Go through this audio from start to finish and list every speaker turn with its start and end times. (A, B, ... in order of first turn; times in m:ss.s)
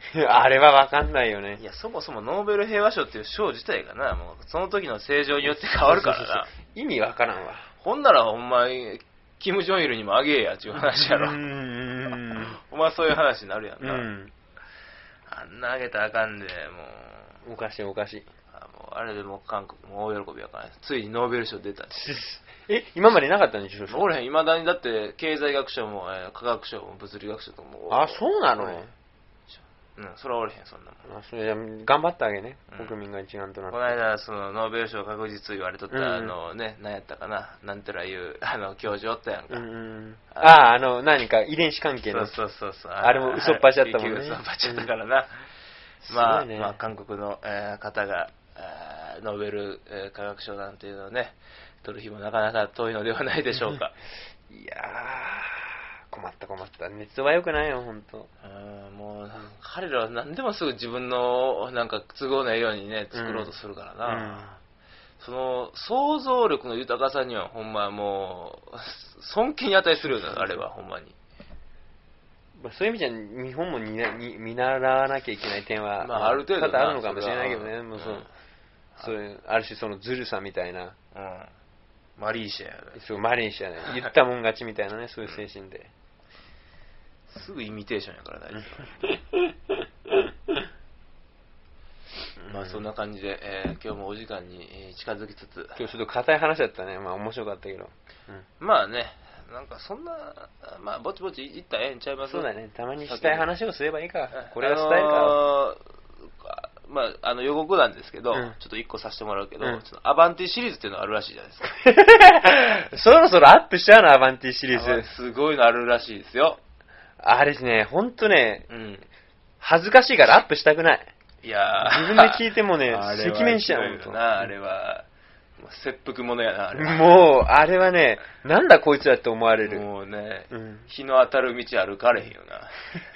0:00.1-0:01.6 A
0:01.6-0:06.5 B
0:05.7-0:07.7 A
0:07.8-0:11.4 B
0:10.8-0:12.6 A
0:12.4-0:14.1 B
0:13.8-0:14.3 A
0:15.3-0:17.4 B
0:17.4-0:18.2 A
0:18.5-0:22.0 B
0:21.9-0:24.0 A
0:23.9-0:28.9 B
0:27.9-0:28.9 A
0:30.0-0:31.0 B
0:31.0-0:34.0 A
0:32.7-0:33.0 B
0:33.7-0:39.6 B
0:35.9-0:36.4 A
0:39.5-0:42.4 A
0:40.3-0:40.6 B
0:42.1-0:45.5 B
0:43.0-0:44.9 A
0:46.0-0:46.8 A
0:46.1-0:53.9 B
0:54.5-0:58.3 A
0:58.4-1:04.5 B
1:03.1-1:03.5 A
1:04.0-1:04.6 A
1:05.2-1:11.2 B
1:10.0-1:10.6 A
1:12.6-1:18.3 A
1:16.0-1:18.3 B
1:19.0-1:21.0 A
1:21.1-1:21.5 B
1:22.2-1:23.0 B
1:22.9-1:25.9 A
1:27.3-1:29.0 B
1:32.4-1:32.8 A
1:32.4-1:35.8 B
1:35.8-1:38.4 A
1:38.6-1:42.5 B
1:42.3-1:45.4 A
1:43.0-1:43.5 B
1:44.3-1:51.8 B
1:51.8-1:55.0 A
1:54.7-1:56.6 B
1:57.2-1:58.7 A
1:58.7-1:59.1 B
1:59.6-2:01.1 A
2:01.4-2:05.0 B
2:01.8-2:04.5 A
2:05.6-2:07.2 B
2:06.8-2:09.8 A
2:09.6-2:12.7 B
2:10.5-2:10.9 A